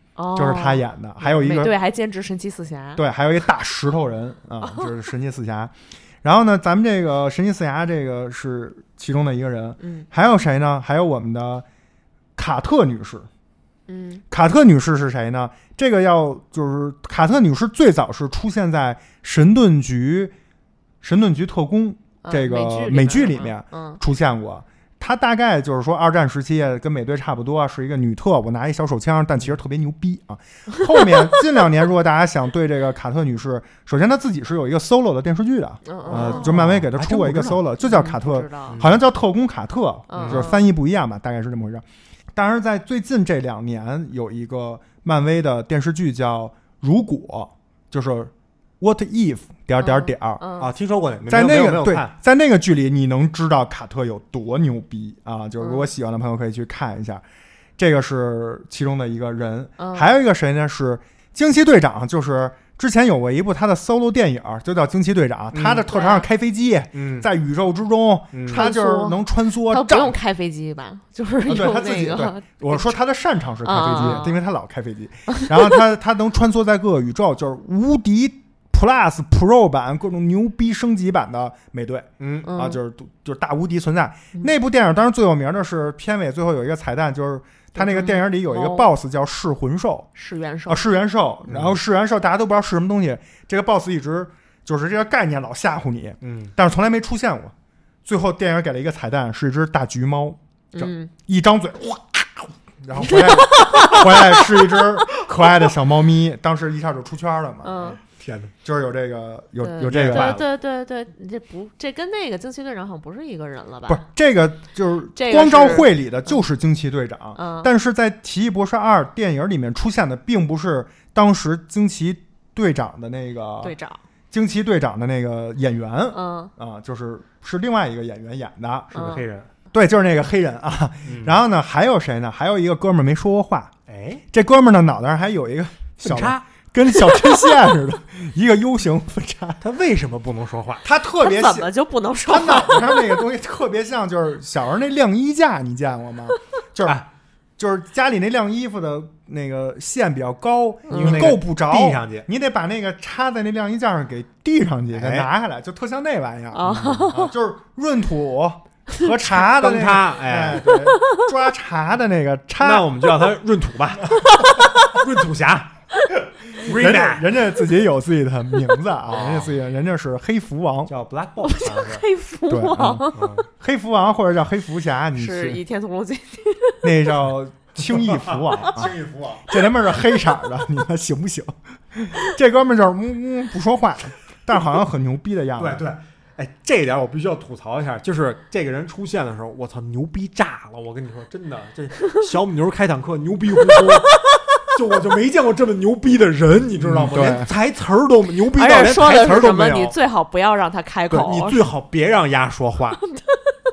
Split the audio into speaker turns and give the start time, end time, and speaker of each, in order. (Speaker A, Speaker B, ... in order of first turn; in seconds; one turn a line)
Speaker A: 0.2-3.0
Speaker B: 0.3-1.8
Speaker B: 3.0-11.6
Speaker A: 9.8-10.1
Speaker B: 12.4-13.3
Speaker A: 13.9-14.2
Speaker B: 14.3-20.3
Speaker B: 21.0-50.4
Speaker A: 22.2-24.0
Speaker A: 35.9-36.5
Speaker C: 36.1-37.6
Speaker A: 37.8-38.8
Speaker C: 38.7-39.0
Speaker A: 40.1-40.6
Speaker C: 40.2-40.5
Speaker A: 49.8-50.7
Speaker C: 50.6-52.1
Speaker B: 51.3-57.2
Speaker A: 55.6-55.9
Speaker B: 57.8-70.2
Speaker A: 59.8-60.1
Speaker C: 65.5-65.9
Speaker A: 65.9-66.3
Speaker C: 67.0-67.3
Speaker C: 68.3-68.7
Speaker A: 68.5-73.0
Speaker B: 71.5-90.1
Speaker A: 73.6-74.4
Speaker A: 75.3-75.8
Speaker C: 82.2-82.5
Speaker A: 82.5-82.8
Speaker A: 87.8-88.9
Speaker A: 90.2-90.8
Speaker B: 90.7-97.5
Speaker C: 91.5-91.8
Speaker C: 96.2-96.5
Speaker B: 98.1-107.9
Speaker A: 100.7-101.1
Speaker A: 103.0-104.4
Speaker A: 107.6-108.0
Speaker C: 108.0-108.5
Speaker B: 108.6-110.4
Speaker A: 109.6-114.0
Speaker C: 109.8-110.4
Speaker B: 113.9-123.8
Speaker A: 115.2-116.4
Speaker A: 117.4-117.7
Speaker A: 123.6-124.0
Speaker B: 124.3-129.1
Speaker A: 126.1-126.5
Speaker A: 128.9-129.2
Speaker C: 128.9-129.5
Speaker B: 129.7-133.7
Speaker C: 131.1-131.4
Speaker C: 133.9-134.2
Speaker B: 134.3-139.6
Speaker C: 136.0-136.4
Speaker C: 139.6-140.8
Speaker B: 140.8-141.7
Speaker A: 141.2-143.2
Speaker B: 142.2-147.0
Speaker B: 147.6-162.9
Speaker A: 150.9-151.3
Speaker C: 150.9-152.3
Speaker C: 154.9-155.3
Speaker A: 156.5-157.3
Speaker C: 156.6-157.2
Speaker C: 159.3-160.7
Speaker A: 160.7-161.2
Speaker C: 162.6-165.7
Speaker C: 166.5-167.2
Speaker B: 166.6-170.9
Speaker C: 169.1-169.5
Speaker C: 170.9-172.1
Speaker A: 171.4-173.3
Speaker B: 172.5-175.6
Speaker C: 173.1-173.4
Speaker A: 175.2-176.9
Speaker B: 176.8-178.9
Speaker C: 177.9-179.5
Speaker B: 179.5-185.8
Speaker C: 185.6-199.9
Speaker B: 196.8-197.5
Speaker A: 198.5-201.7
Speaker B: 199.2-199.5
Speaker C: 201.1-203.0
Speaker A: 203.1-203.4